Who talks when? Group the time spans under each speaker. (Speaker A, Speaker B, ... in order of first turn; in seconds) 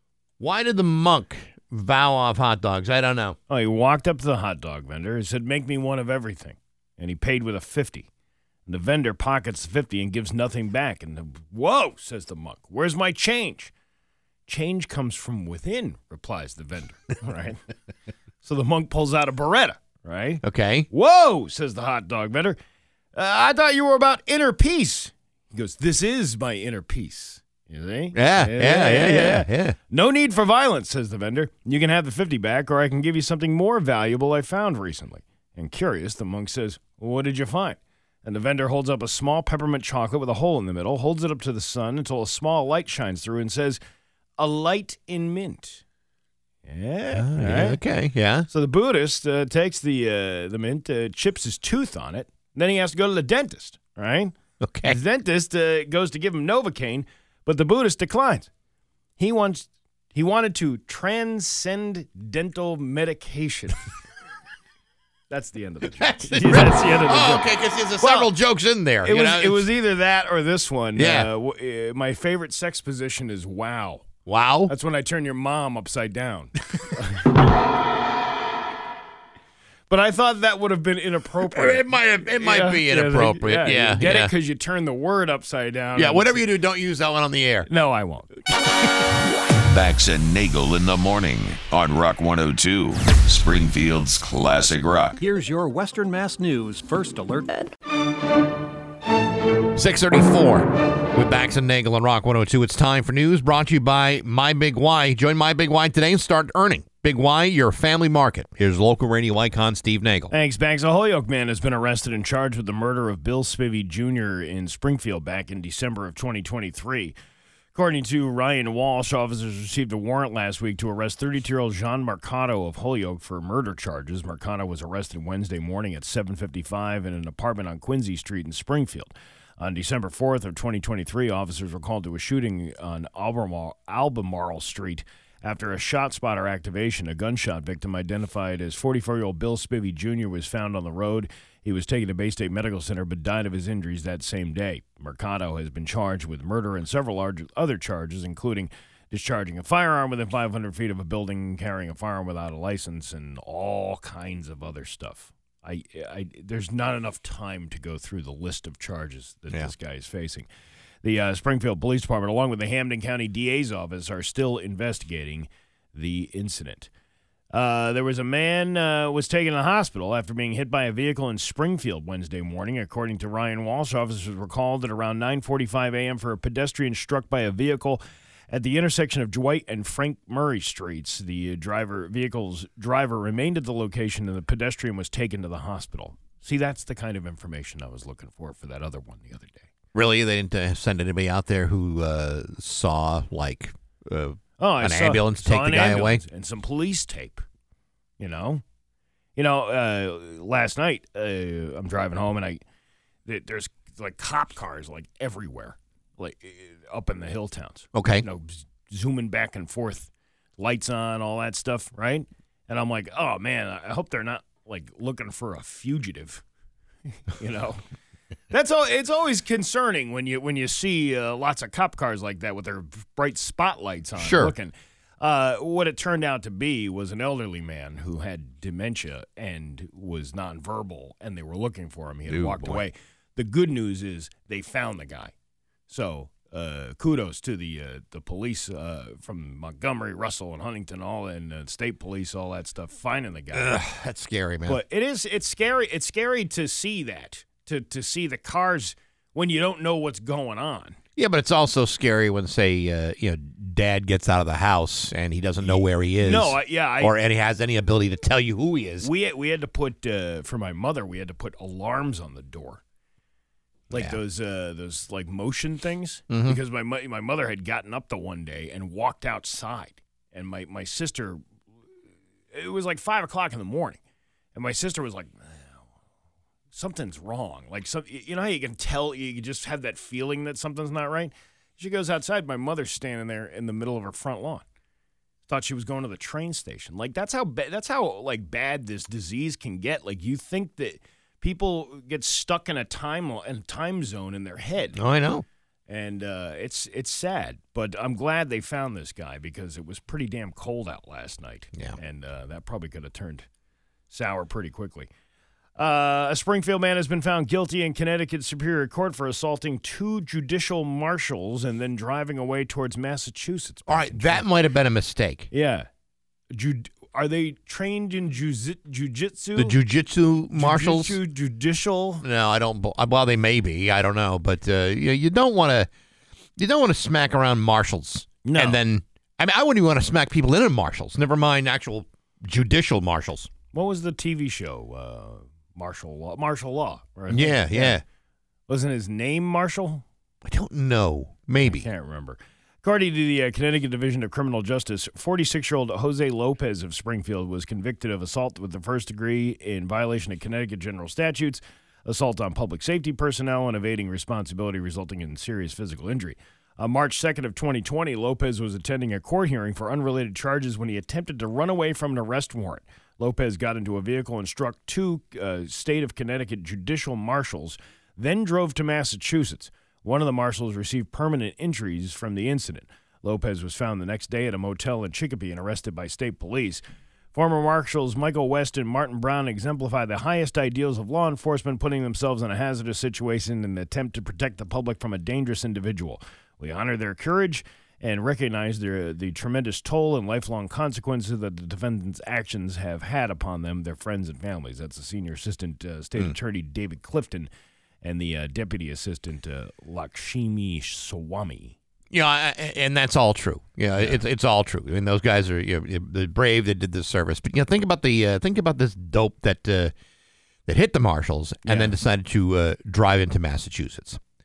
Speaker A: 0.4-3.4, 20.4-20.9, 28.1-29.8, 47.1-48.5, 54.6-55.0, 65.8-69.7, 71.0-71.3, 74.3-74.7, 81.4-84.3, 86.0-87.7, 99.8-110.3, 189.9-196.2, 207.9-208.3, 224.2-224.5, 232.3-232.8, 243.5-244.8, 251.2-259.1, 263.9-264.2, 266.3-266.6, 295.0-295.4, 313.9-315.5, 319.6-321.2, 322.2-325.9, 326.6-333.5, 337.3-338.0, 340.4-341.9, 402.1-409.9, 410.7-414.2
Speaker B: 3.5-8.1, 8.7-13.7, 14.5-17.6, 18.4-22.6, 23.1-43.8, 44.4-45.8, 46.6-47.8, 48.5-58.5, 59.2-63.9, 65.3-67.5, 68.0-68.3, 69.0-74.1, 74.7-77.3, 79.9-81.9, 82.4-86.4, 87.7-88.3, 110.3-117.2, 117.8-160.5, 161.0-166.9, 167.5-189.7, 194.6-197.4, 198.2-198.6, 199.4-202.6, 203.3-216.4, 217.2-217.8, 218.5-235.3, 235.9-243.8, 244.7-251.0, 255.6-257.1, 259.0-262.8, 263.9-271.4, 272.5-274.0, 274.6-275.9, 276.7-284.6, 285.5-295.0, 295.9-303.5, 304.1-305.1, 305.8-314.4, 315.5-315.9, 316.5-319.8, 320.6-322.2, 328.4-328.8, 333.7-338.0, 338.7-340.1, 341.6-376.8, 377.3-397.5, 398.0-401.8, 411.7-411.9
Speaker C: 89.7-95.2
Speaker D: 95.2-97.6